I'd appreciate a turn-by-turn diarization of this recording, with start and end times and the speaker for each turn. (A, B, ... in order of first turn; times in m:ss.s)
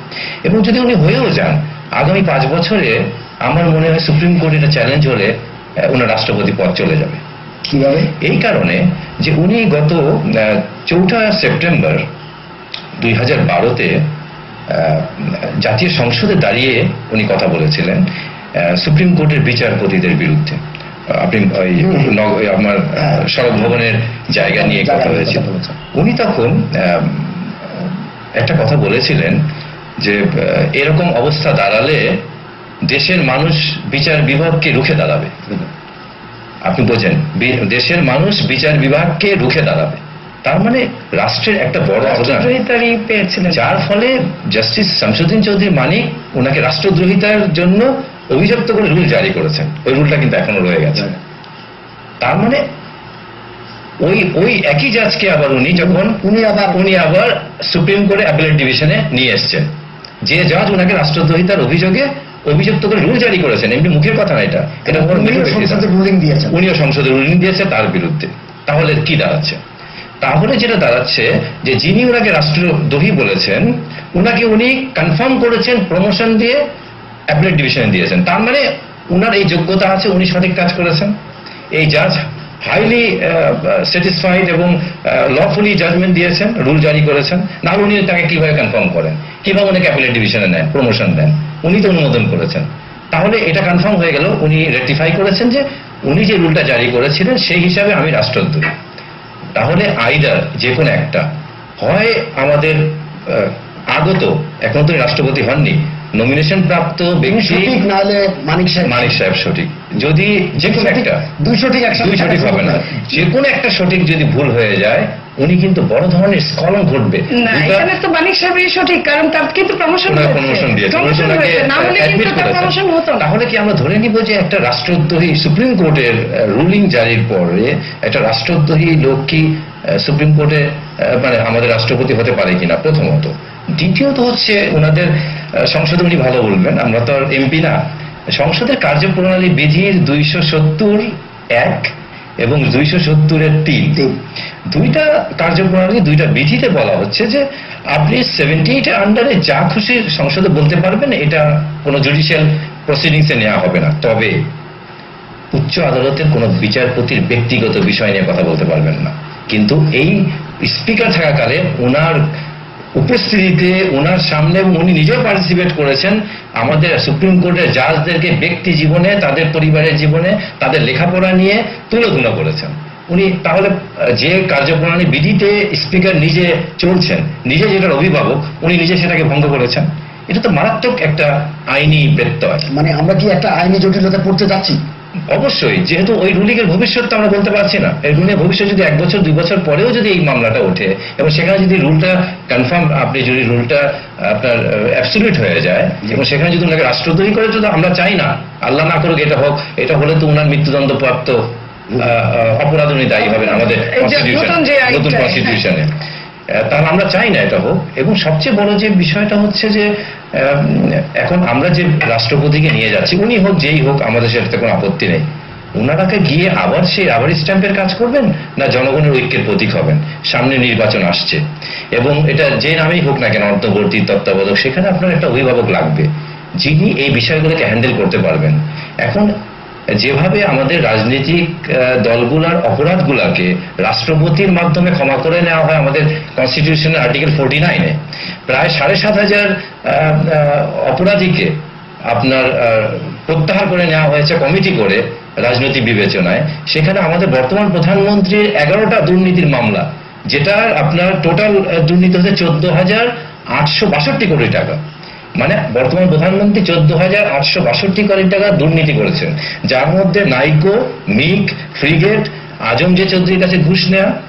0:00.4-0:05.3 A
0:05.8-0:07.2 A
0:07.6-0:08.1 B
0:08.1-0:12.0 A
0:13.0-0:14.0 A
0:14.7-0:18.0 A
0:18.6-0:29.4 A
0:23.0-0:23.3 B
0:24.5-0:25.8 B
0:30.0-0:32.2 A
0:32.9-0:35.6 A
0:36.6-0:42.5 A
0:42.0-0:43.6 C
0:43.4-0:51.2 A
0:52.2-0:52.6 A
0:54.0-0:59.7 A
0:55.7-0:56.8 B
1:00.2-1:05.9 A
1:04.8-1:06.6 B
1:06.5-1:09.6 A
1:10.2-1:16.6 A
1:17.3-1:21.1 A
1:21.7-1:38.7 A
1:39.5-1:41.2 A
1:41.8-1:47.8 A
1:47.2-1:49.1 B
1:48.8-1:51.2 A
1:50.6-1:53.0 B
1:52.0-1:57.9 A
1:57.3-2:03.3 C
2:00.0-2:17.8 A
2:18.4-2:21.0 A
2:21.6-2:21.9 A
2:22.4-2:24.1 A
2:24.7-2:27.4 A
2:27.9-2:34.4 A
2:35.5-2:42.2 A
2:43.0-3:02.6 A
3:02.7-3:04.8 B
3:05.3-3:25.9 A
3:23.2-3:25.6 C
3:26.5-3:35.2 A
3:35.8-3:41.4 A
3:41.9-3:46.1 A
3:46.6-3:49.3 A
3:50.0-4:01.6 A
4:02.1-4:14.8 A
4:15.4-4:24.1 A